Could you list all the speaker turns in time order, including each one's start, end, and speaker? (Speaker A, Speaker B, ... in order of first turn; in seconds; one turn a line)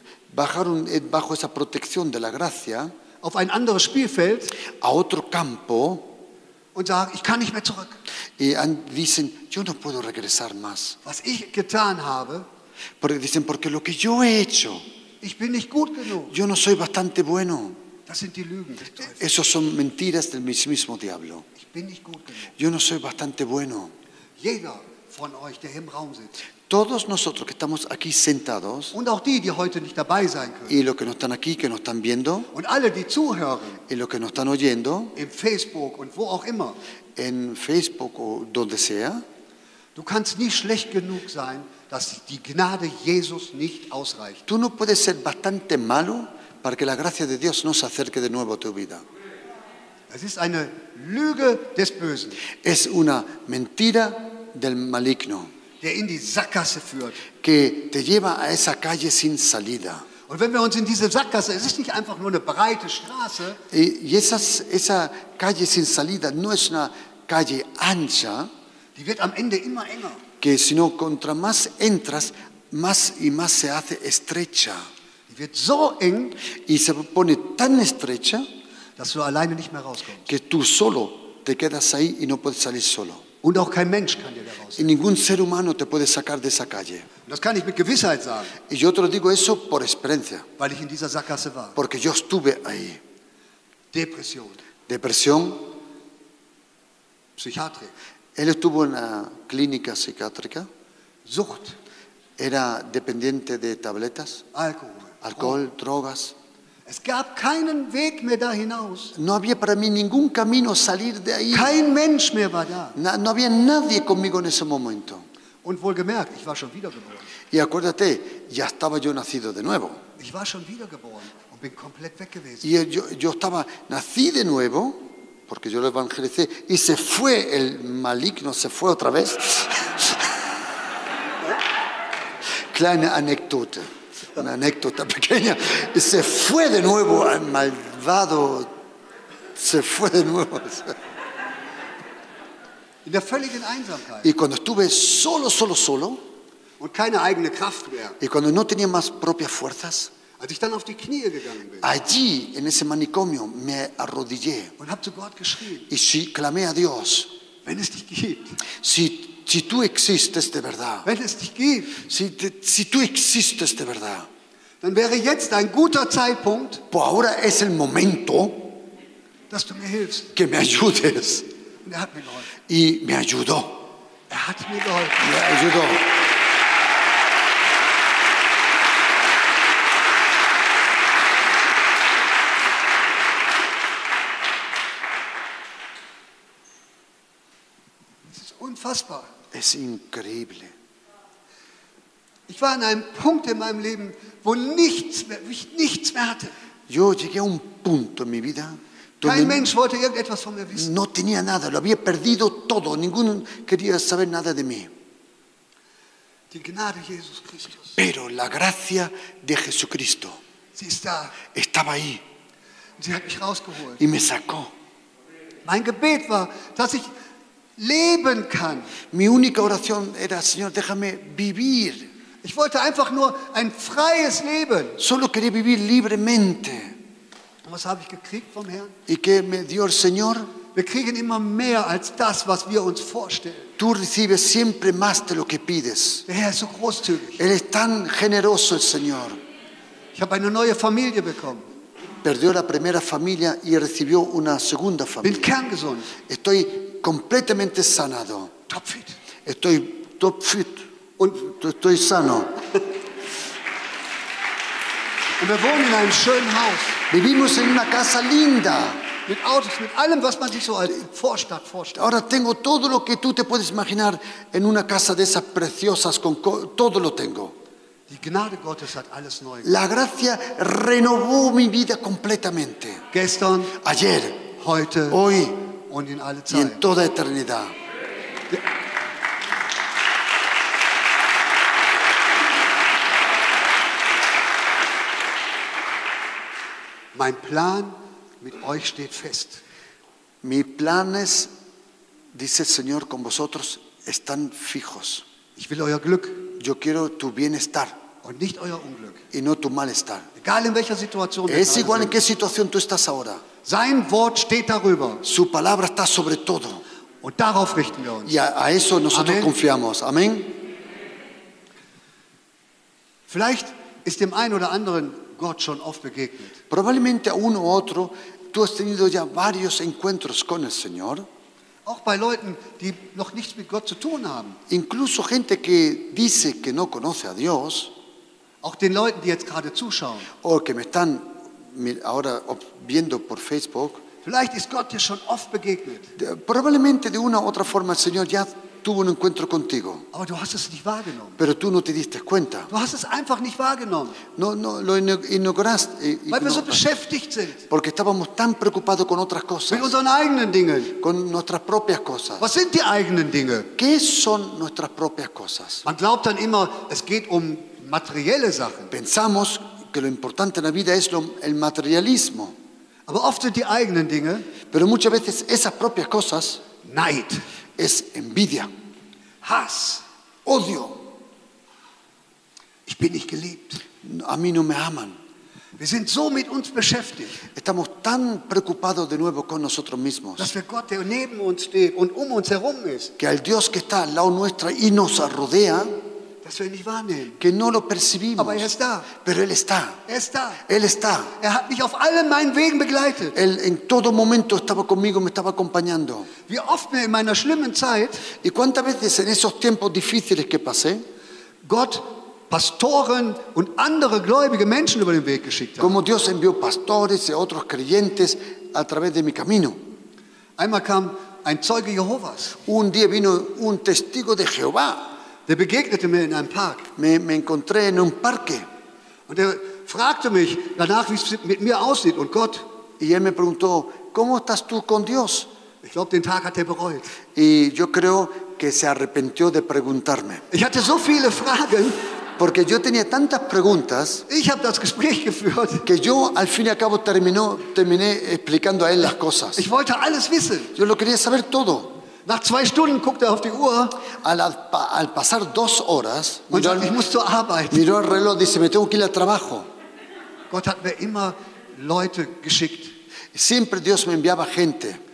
Speaker A: 0.3-2.9
Speaker B: 3.2-4.5
Speaker A: 4.7-6.1
Speaker B: 6.7-8.0
Speaker A: 8.4-11.0
Speaker B: 11.1-12.4
Speaker A: 13.0-14.8
Speaker B: 15.2-16.3
Speaker A: 16.3-17.8
Speaker B: 18.1-19.2
Speaker A: 19.1-21.4
Speaker B: 21.6-22.5
Speaker A: 22.6-23.9
Speaker B: 24.4-26.3
Speaker A: 26.7-28.9
Speaker B: 28.9-30.8
Speaker A: 30.7-32.5
Speaker B: 32.5-33.8
Speaker A: 33.9-35.1
Speaker B: 35.2-36.8
Speaker A: 37.2-39.2
Speaker B: 40.0-44.4
Speaker A: 44.5-49.0
Speaker B: 50.1-52.4
Speaker A: 52.6-55.5
Speaker B: 55.8-57.2
Speaker A: 57.4-60.1
Speaker B: 60.3-63.6
Speaker A: 63.7-68.5
Speaker B: 69.0-70.2
Speaker A: 70.4-74.8
Speaker B: 75.3-76.4
Speaker A: 76.6-78.5
Speaker B: 79.0-80.3
Speaker A: 80.3-83.2
Speaker B: 83.4-84.9
Speaker A: 84.8-87.1
Speaker B: 87.3-88.5
Speaker A: 88.7-90.5
Speaker B: 90.6-91.8
Speaker A: 91.8-93.0
Speaker B: 93.9-94.6
Speaker A: 94.9-95.7
Speaker B: 97.4-97.9
Speaker A: 98.4-100.7
Speaker B: 101.3-101.8
Speaker A: 102.4-104.4
Speaker B: 104.5-105.5
Speaker A: 105.2-106.3
Speaker B: 106.9-109.1
Speaker A: 109.1-111.8
Speaker B: 111.5-113.0
Speaker A: 113.0-115.3
Speaker B: 115.6-117.2
Speaker A: 117.5-120.0
Speaker B: 120.2-122.7
Speaker A: 122.6-130.3
Speaker A: 132.7-138.7
Speaker A: 139.6-141.0
Speaker B: 143.1-144.3
Speaker A: 144.2-146.2
Speaker B: 146.8-148.2
Speaker A: 148.2-150.1
Speaker B: 150.4-151.9
Speaker A: 151.8-154.7
Speaker B: 154.8-155.9
Speaker A: 155.9-157.3
Speaker B: 157.6-158.6
Speaker A: 158.8-161.1
Speaker B: 161.1-162.0
Speaker A: 162.0-164.3
Speaker B: 164.8-166.8
Speaker A: 166.9-168.8
Speaker B: 169.5-170.3
Speaker A: 170.3-171.5
Speaker B: 171.8-172.5
Speaker A: 172.7-173.8
Speaker B: 174.3-175.3
Speaker A: 175.2-176.1
Speaker B: 188.3-189.3
Speaker A: 189.5-190.7
Speaker B: 192.5-196.5
Speaker A: 196.9-199.7
Speaker B: 199.2-200.9
Speaker A: 200.8-204.9
Speaker B: 206.5-208.0
Speaker A: 208.0-210.4
Speaker B: 210.8-211.4
Speaker A: 211.5-212.2
Speaker B: 213.0-214.0
Speaker A: 214.0-214.7
Speaker B: 215.6-217.1
Speaker B: 217.8-218.9
Speaker A: 219.1-222.1
Speaker B: 222.4-225.0
Speaker A: 225.0-226.9
Speaker B: 227.6-228.9
Speaker A: 229.1-230.5
Speaker B: 230.7-233.7
Speaker A: 233.8-236.3
Speaker B: 236.3-237.4
Speaker A: 237.4-239.4
Speaker B: 240.1-241.7
Speaker A: 242.2-245.5
Speaker B: 245.2-246.1
Speaker A: 246.2-248.5
Speaker B: 248.7-249.2
Speaker A: 249.4-250.8
Speaker B: 251.2-251.4
Speaker A: 251.4-252.6
Speaker B: 255.4-257.0
Speaker A: 257.1-259.0
Speaker B: 259.3-262.1
Speaker A: 261.9-267.6
Speaker B: 268.1-269.7
Speaker A: 269.6-273.0
Speaker B: 273.1-273.8
Speaker A: 273.8-274.5
Speaker B: 274.6-275.2
Speaker A: 275.1-275.7
Speaker B: 275.9-276.8
Speaker A: 276.5-277.7
Speaker B: 287.1-289.6
Speaker A: 290.4-291.5
Speaker A: 292.3-295.2
Speaker B: 295.6-296.4
Speaker A: 296.6-298.0
Speaker B: 298.2-299.2
Speaker A: 299.3-300.3
Speaker B: 300.4-302.2
Speaker A: 301.5-303.4
Speaker B: 303.6-305.2
Speaker A: 305.2-306.8
Speaker B: 307.2-308.4
Speaker A: 308.3-310.6
Speaker B: 309.1-309.5
Speaker B: 313.3-316.6
Speaker A: 316.7-321.3
Speaker B: 321.9-324.6
Speaker A: 324.7-327.9
Speaker B: 328.6-330.3
Speaker A: 330.4-334.0
Speaker B: 334.2-336.1
Speaker A: 336.2-340.1
Speaker B: 340.1-341.4
Speaker A: 341.4-342.7
Speaker B: 342.7-344.2
Speaker A: 344.4-346.8
Speaker B: 346.3-347.6
Speaker A: 347.7-349.9
Speaker B: 349.7-351.0
Speaker A: 351.0-352.4
Speaker B: 352.4-353.7
Speaker A: 353.8-355.9
Speaker B: 355.8-358.9
Speaker A: 358.9-362.6
Speaker B: 363.1-364.5
Speaker A: 364.7-366.6
Speaker B: 366.8-367.4
Speaker A: 367.8-368.7
Speaker B: 369.4-370.0
Speaker A: 370.4-371.0
Speaker B: 372.9-373.8
Speaker A: 374.0-375.2
Speaker B: 375.8-377.4
Speaker A: 377.6-380.5
Speaker B: 380.4-383.1
Speaker A: 383.2-385.9
Speaker B: 386.4-387.4
Speaker A: 387.4-390.0
Speaker B: 388.4-389.1
Speaker B: 390.1-390.6
Speaker A: 390.7-391.3
Speaker B: 391.4-393.4
Speaker A: 393.3-396.3
Speaker B: 396.5-398.2
Speaker A: 398.4-401.0
Speaker B: 401.6-405.9
Speaker A: 405.8-409.8
Speaker B: 410.6-412.6
Speaker A: 412.7-415.1
Speaker B: 415.5-416.9
Speaker A: 417.0-418.7
Speaker B: 419.3-422.7
Speaker A: 423.0-425.5
Speaker B: 425.8-427.1
Speaker A: 427.3-430.4
Speaker B: 430.5-432.0
Speaker A: 432.4-434.3
Speaker B: 434.3-435.9
Speaker A: 435.8-439.6
Speaker B: 439.6-440.7
Speaker A: 440.7-442.0
Speaker B: 442.3-444.0
Speaker A: 444.1-446.9
Speaker B: 446.5-447.8
Speaker A: 447.7-449.7
Speaker B: 450.5-452.9
Speaker A: 453.3-455.0